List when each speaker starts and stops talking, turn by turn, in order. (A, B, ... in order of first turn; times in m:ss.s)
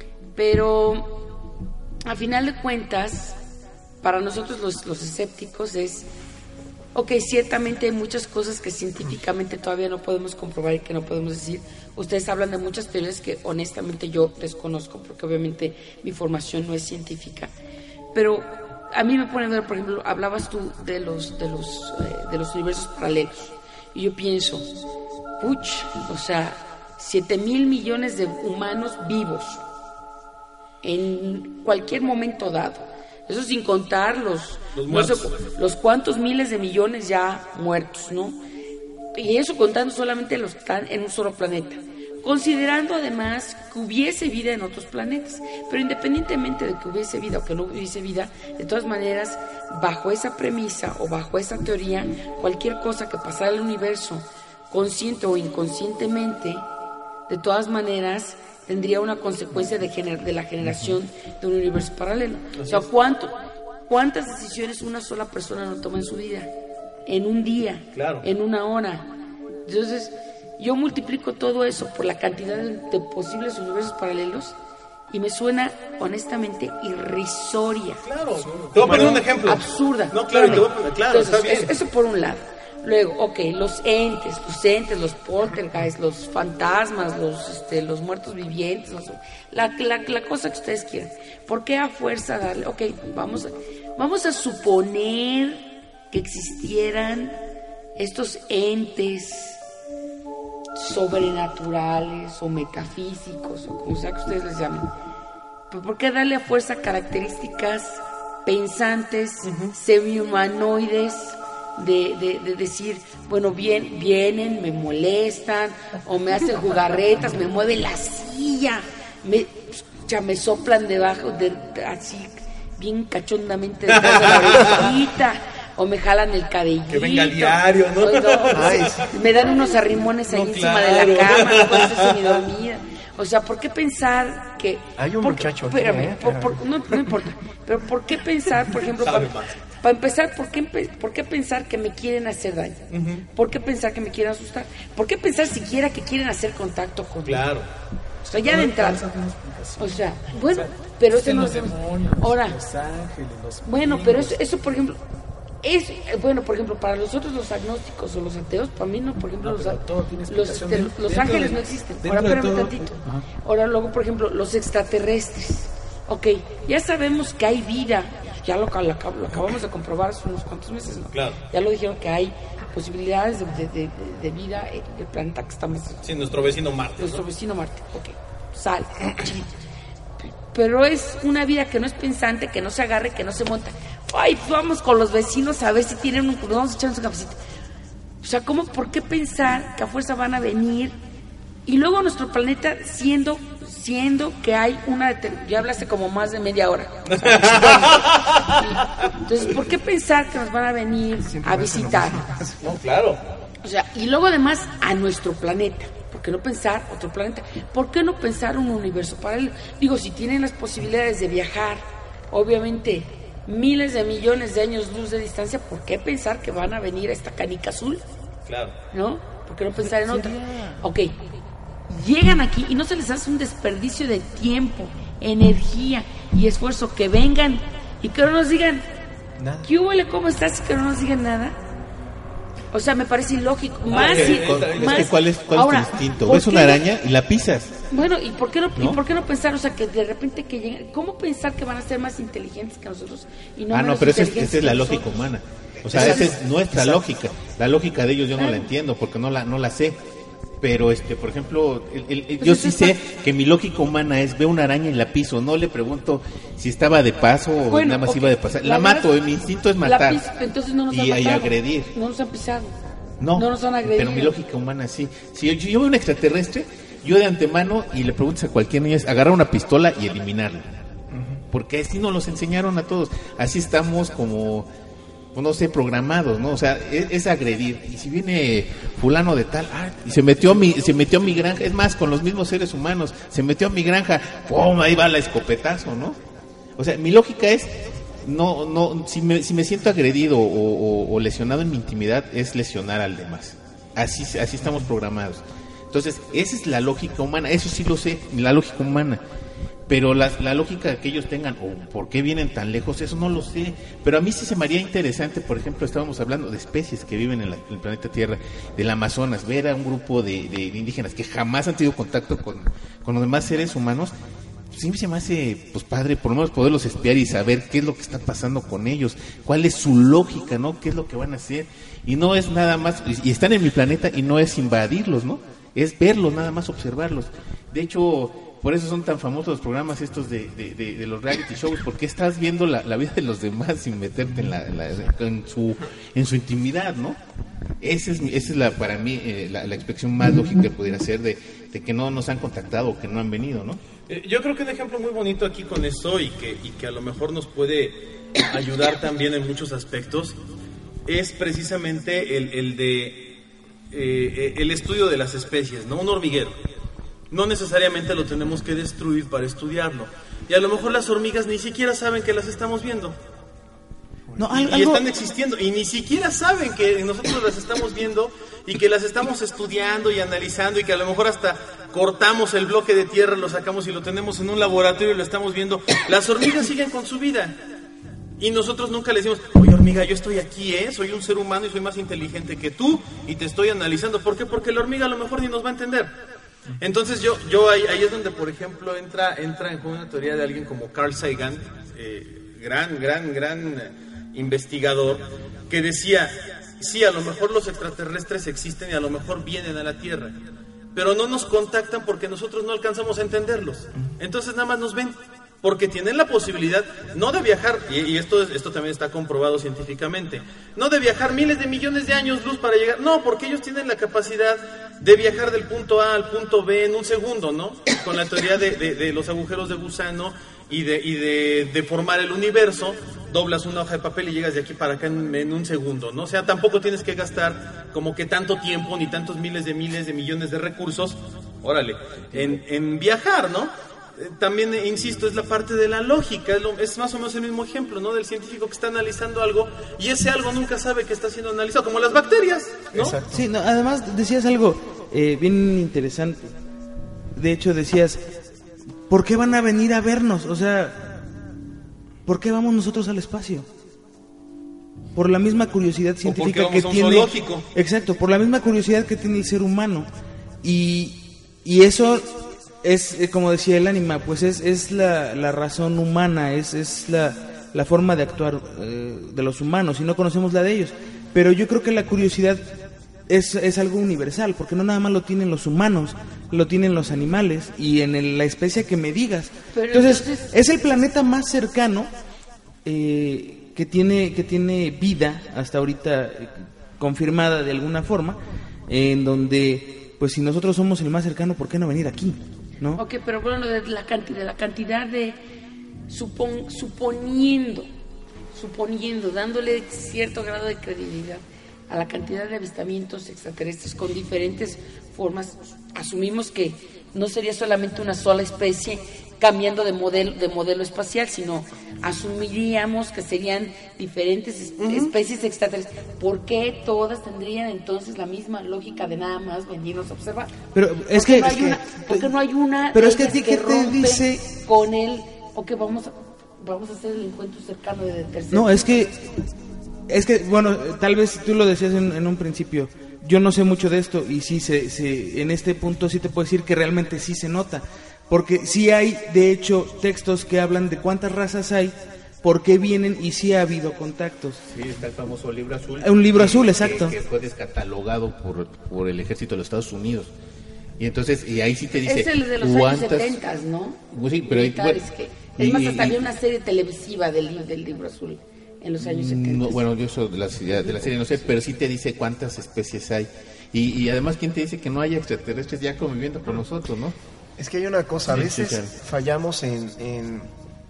0:00.3-0:01.1 A
0:02.0-0:03.4 A
0:04.0-0:06.1 A
0:06.9-0:17.5 A
0:18.1-0:24.7 A
0:25.4-0:29.6 A
0:30.8-0:38.4 A
0:34.7-0:35.3 B
0:39.2-0:56.6 A
0:57.3-1:03.3 A
1:02.5-1:02.8 B
1:03.9-1:06.5 A
1:07.0-1:09.1 A
1:07.9-1:08.2 B
1:09.6-1:14.5 A
1:15.1-1:18.0 A
1:18.0-1:21.7 B
1:18.4-1:18.8 C
1:18.8-1:37.4 A
1:38.0-1:39.6 A
1:40.8-1:44.9 A
1:45.7-2:27.5 A
1:49.4-1:49.7 B
2:03.9-2:04.9 B
2:06.9-2:09.1 B
2:08.5-2:09.1 D
2:10.3-2:12.4 B
2:15.0-2:16.6 D
2:19.0-2:19.5 B
2:22.9-2:23.2 B
2:27.2-2:27.7 B
2:28.2-2:29.0 A
2:28.4-2:34.4 C
2:29.8-2:32.6 A
2:33.6-2:35.0 A
2:35.6-2:56.0 A
2:39.4-2:43.2 C
2:51.1-2:51.4 B
2:56.0-2:57.2 B
2:57.0-2:59.5 A
3:00.2-3:07.4 A
3:08.2-3:11.0 A
3:11.6-3:22.3 A
3:17.1-3:18.8 B
3:21.2-3:22.6 D
3:22.6-3:23.2 B
3:23.6-3:38.0 A
3:38.5-3:38.7 B
3:38.9-3:41.1 A
3:41.9-3:48.8 A
3:49.4-3:49.7 D
3:49.6-3:51.6 A
3:52.7-3:56.8 A
3:53.9-3:55.1 B
3:54.0-3:57.7 E
3:57.9-4:05.1 A
4:03.7-4:10.0 E
4:05.8-4:06.3 D
4:05.9-4:06.9 A
4:08.4-4:08.7 A
4:10.6-4:20.2 E
4:12.4-4:13.0 A
4:17.7-4:19.1 A
4:19.8-4:22.7 A
4:20.9-4:21.9 E
4:23.2-4:30.7 E
4:23.3-4:24.3 A
4:31.1-4:31.4 D
4:31.5-4:34.7 E
4:35.3-4:46.2 E
4:46.8-4:47.7 E
4:48.2-4:59.2 E
4:59.9-5:14.1 E
5:14.7-5:37.2 E
5:37.8-5:43.8 E
5:44.1-5:50.4 B
5:51.1-5:53.3 B
5:53.9-5:56.6 B
5:57.3-6:03.2 B
6:04.3-6:04.6 D
6:04.4-6:05.0 F
6:04.5-6:17.5 B
6:18.4-6:26.1 B
6:26.8-6:40.4 B
6:40.9-7:23.2 B
7:22.9-7:23.4 D
7:23.3-7:26.5 F
7:27.3-7:28.2 F
7:29.1-7:31.2 F
7:32.2-7:33.7 F
7:35.1-7:40.1 F
7:36.2-7:37.6 B
7:40.6-7:52.6 F
7:53.3-8:02.1 F
7:59.7-8:00.5 A
8:02.8-8:13.0 F
8:13.0-8:15.4 A
8:16.1-8:17.9 A
8:18.5-8:40.5 A
8:34.8-8:35.1 B
8:40.7-8:42.3 F
8:41.1-8:49.1 A
8:42.9-8:44.4 F
8:48.5-8:49.3 F
8:50.1-9:04.6 F
9:04.7-9:10.3 E
9:06.0-9:07.1 F
9:11.0-9:13.4 E
9:12.0-9:19.8 A
9:14.1-9:15.0 E
9:15.5-9:16.2 E
9:19.0-9:27.2 E
9:27.6-9:30.5 D
9:28.3-9:28.9 E